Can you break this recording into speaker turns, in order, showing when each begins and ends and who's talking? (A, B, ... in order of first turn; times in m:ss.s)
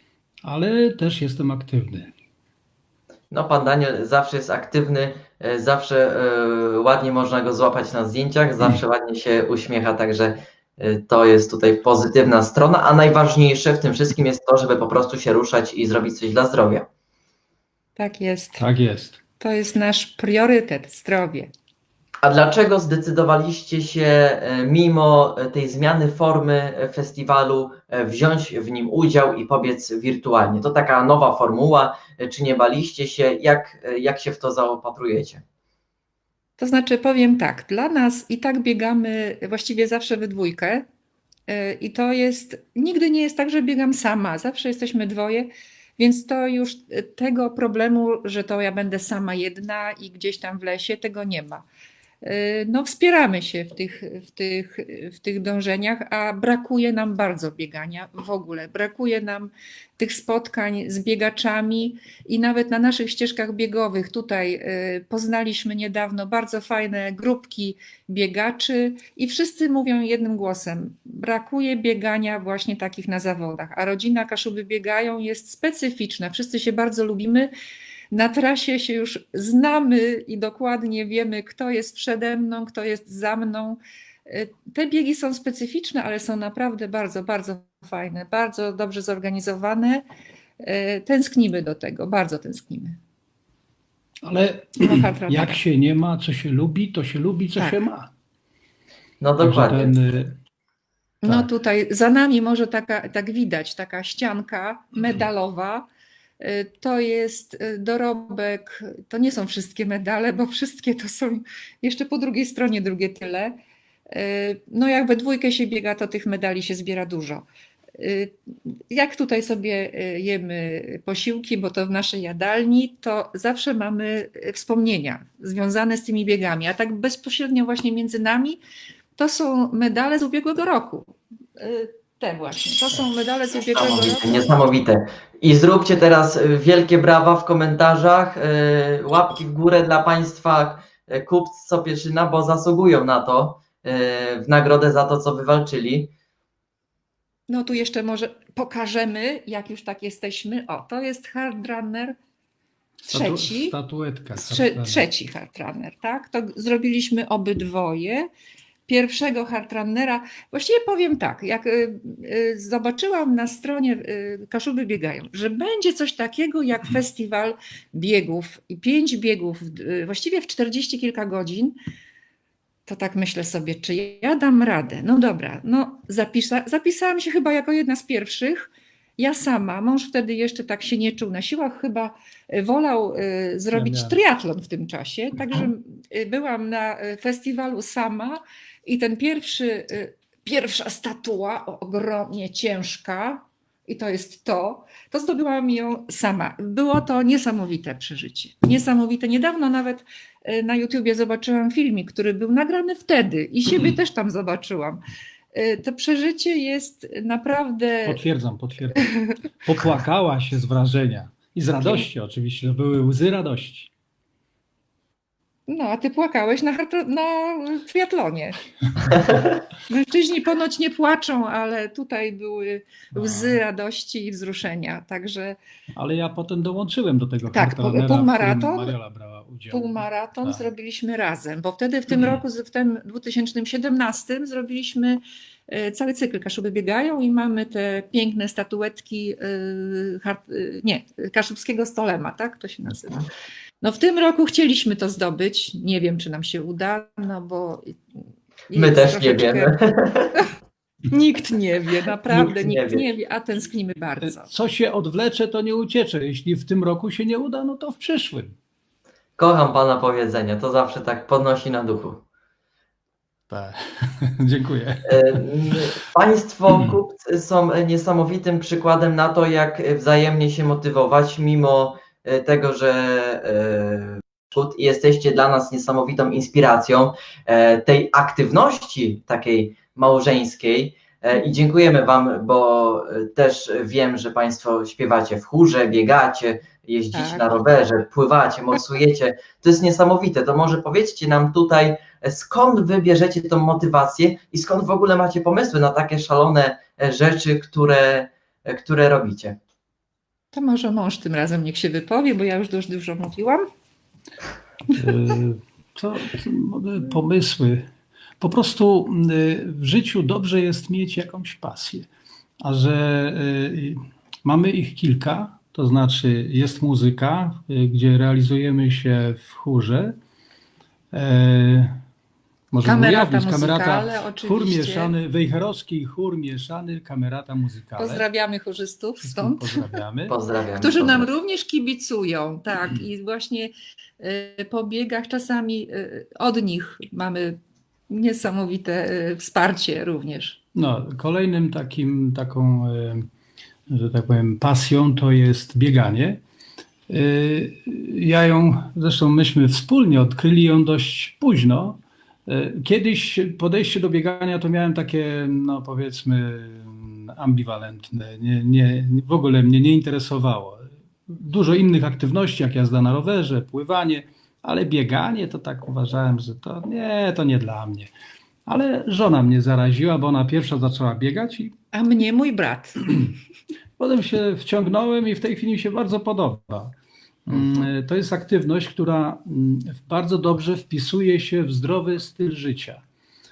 0:00.4-0:02.1 A
0:03.3-0:16.9 B
0:18.0-0:18.6 C
0:18.6-0:19.2 A
0:19.4-0:21.5 C
0:22.2-0:35.4 B
0:36.6-0:40.8 C
0:41.5-0:51.6 C
0:52.2-1:17.5 C
1:18.1-1:30.0 C
1:30.6-1:33.0 C
1:34.2-1:38.1 A
1:34.8-1:35.6 C
1:39.2-1:39.9 B
1:39.4-1:40.3 A
1:41.2-1:45.8 C
1:46.4-1:53.5 C
1:54.1-1:57.4 C
1:58.0-1:58.3 C
1:58.9-2:08.6 C
2:09.2-2:14.6 C
2:13.7-2:26.1 B
2:27.5-2:32.1 C
2:33.1-2:33.8 C
2:33.1-2:35.0 A
2:34.3-2:38.3 C
2:38.9-2:51.7 C
2:52.8-3:25.0 C
3:03.7-3:04.2 A
3:25.5-3:28.2 C
3:28.0-3:29.1 A
3:29.6-3:33.9 A
3:35.7-3:38.6 C
3:39.0-3:39.4 A
3:39.9-3:45.6 C
3:43.1-3:43.6 A
3:46.0-3:50.6 A
3:47.5-3:48.9 C
3:49.7-4:03.2 C
4:03.8-4:07.9 C
4:08.7-4:09.8 C
4:08.7-4:10.3 B
4:11.1-4:14.5 C
4:12.3-4:13.1 B
4:14.2-4:18.6 A
4:19.4-4:22.2 B
4:23.5-4:25.8 A
4:25.1-4:59.6 B
4:47.1-4:47.6 C
5:00.5-5:03.6 C
5:05.0-5:07.9 A
5:08.4-5:12.1 A
5:12.6-5:20.2 A
5:21.1-5:21.9 A
5:22.7-5:28.2 A
5:22.8-5:25.1 C
5:28.0-5:30.0 C
5:29.2-5:30.4 A
5:30.3-5:31.3 B
5:30.8-5:37.6 C
5:38.1-5:40.6 C
5:40.7-5:43.3 A
5:43.9-5:46.4 A
5:47.1-6:08.1 A
6:08.6-6:11.7 A
6:11.9-6:13.2 C
6:14.0-6:16.9 A
6:17.5-6:23.0 A